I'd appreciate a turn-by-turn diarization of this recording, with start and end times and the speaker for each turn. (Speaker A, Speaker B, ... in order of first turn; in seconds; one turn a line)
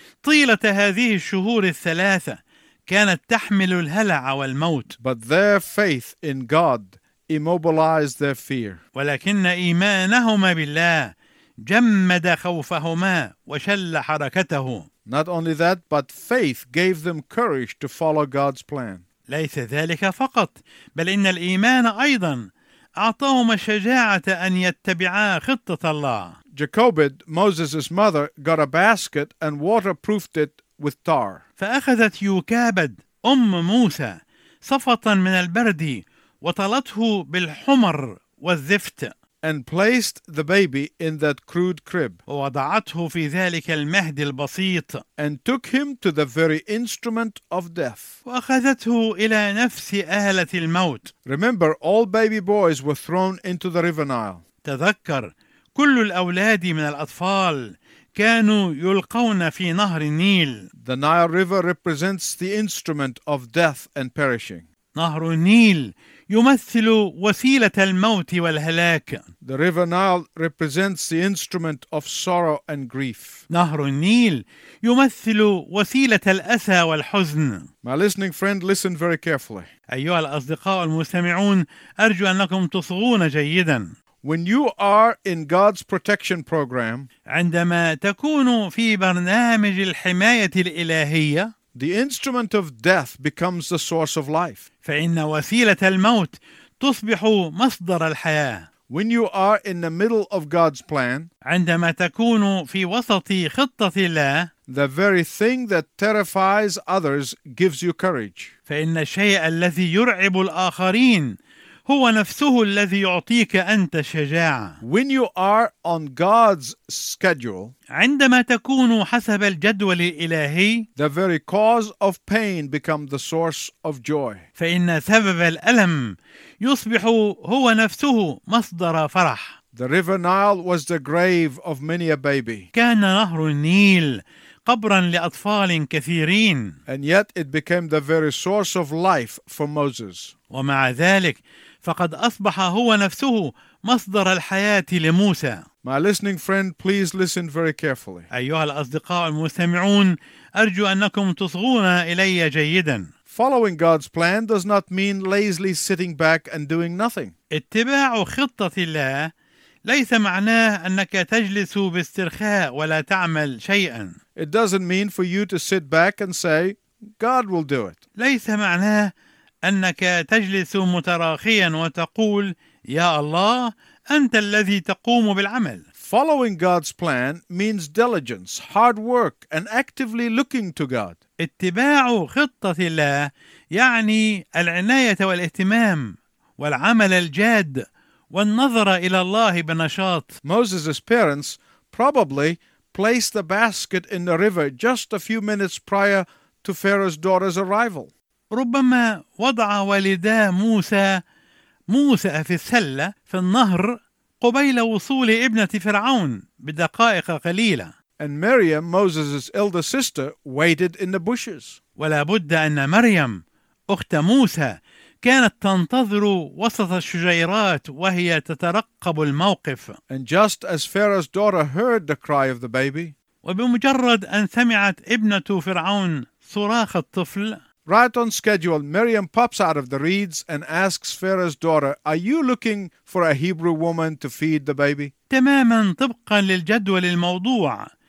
Speaker A: 0.2-4.9
Speaker B: 5.0-8.8
Speaker A: 8.9-14.9
Speaker B: 15.1-19.0
Speaker A: 19.3-26.4
Speaker B: 26.5-31.4
Speaker A: 31.6-39.1
Speaker B: 39.4-42.2
Speaker A: 42.3-45.0
Speaker B: 45.2-48.1
Speaker A: 48.2-51.1
Speaker B: 51.2-54.4
Speaker A: 54.6-60.7
Speaker B: 60.8-64.6
Speaker A: 64.9-69.2
Speaker B: 69.4-73.4
Speaker A: 73.5-77.7
Speaker B: 77.8-79.7
Speaker A: 79.9-83.9
Speaker B: 84.2-87.1
Speaker A: 87.3-91.5
Speaker B: 91.7-94.6
Speaker A: 94.8-98.7
Speaker B: 98.9-101.3
Speaker A: 101.5-104.5
Speaker B: 104.7-108.5
Speaker A: 108.7-114.8
Speaker B: 114.8-117.7
Speaker A: 117.9-120.8
Speaker B: 121.0-124.4
Speaker A: 124.6-129.6
Speaker B: 129.7-132.7
Speaker A: 132.7-136.8
Speaker B: 136.9-140.3
Speaker A: 140.5-145.6
Speaker B: 145.8-148.3
Speaker A: 148.3-153.1
Speaker B: 153.3-157.3
Speaker A: 157.5-159.3
Speaker A: 159.8-164.2
Speaker B: 164.3-168.0
Speaker A: 168.2-169.1
Speaker A: 169.6-175.8
Speaker B: 176.0-181.2
Speaker A: 181.4-190.3
Speaker B: 190.4-198.1
Speaker A: 198.5-201.2
Speaker A: 201.9-207.9
Speaker B: 208.2-211.8
Speaker A: 212.0-220.0
Speaker B: 220.1-223.1
Speaker A: 223.4-227.6
Speaker B: 227.8-235.1
Speaker A: 235.3-237.9